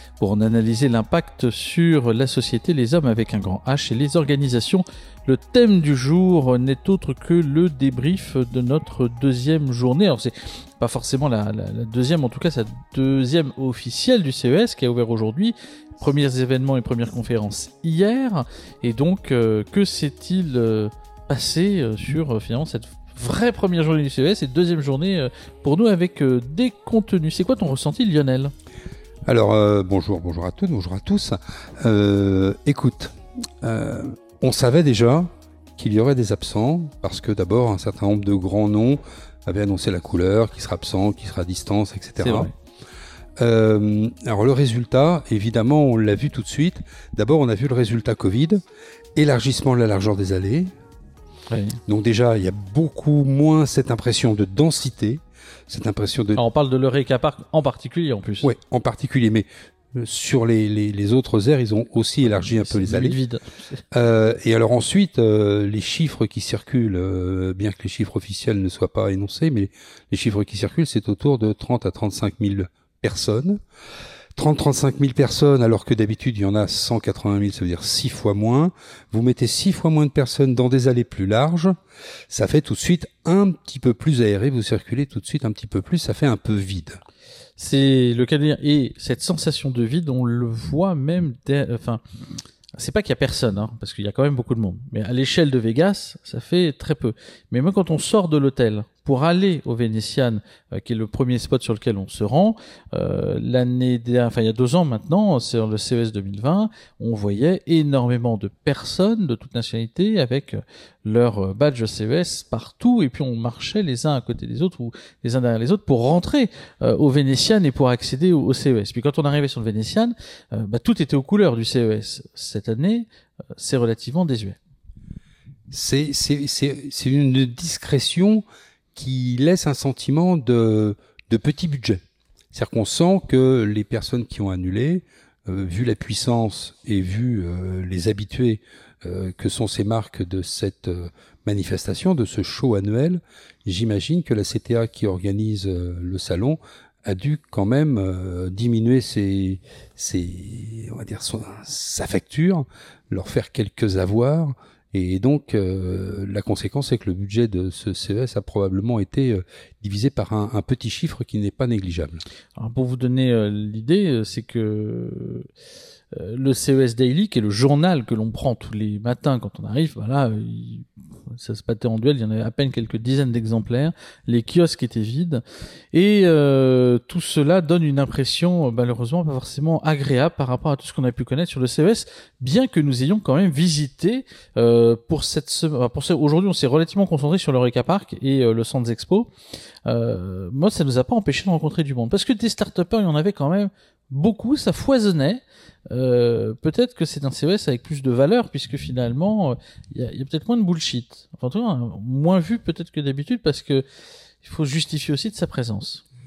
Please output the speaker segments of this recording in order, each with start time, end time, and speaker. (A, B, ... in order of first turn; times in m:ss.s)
0:00.2-0:28.5 A
0:29.3-0:42.5 B
0:42.2-0:42.5 A
0:43.4-0:48.6 B
0:49.2-0:50.7 B
0:51.5-0:51.8 A
0:51.9-0:56.4 B
0:56.4-0:58.5 A
0:58.4-1:03.2 B
1:02.2-1:03.8 A
1:03.9-1:13.6 B
1:14.3-1:21.8 B
1:22.3-1:27.0 B
1:27.6-1:32.0 A
1:32.8-2:04.6 A
2:05.7-2:08.4 B
2:08.9-2:42.2 B
2:42.6-2:45.5 A
2:46.1-2:55.4 A
2:55.9-3:09.3 A
3:09.8-3:23.8 A
3:24.4-3:26.0 A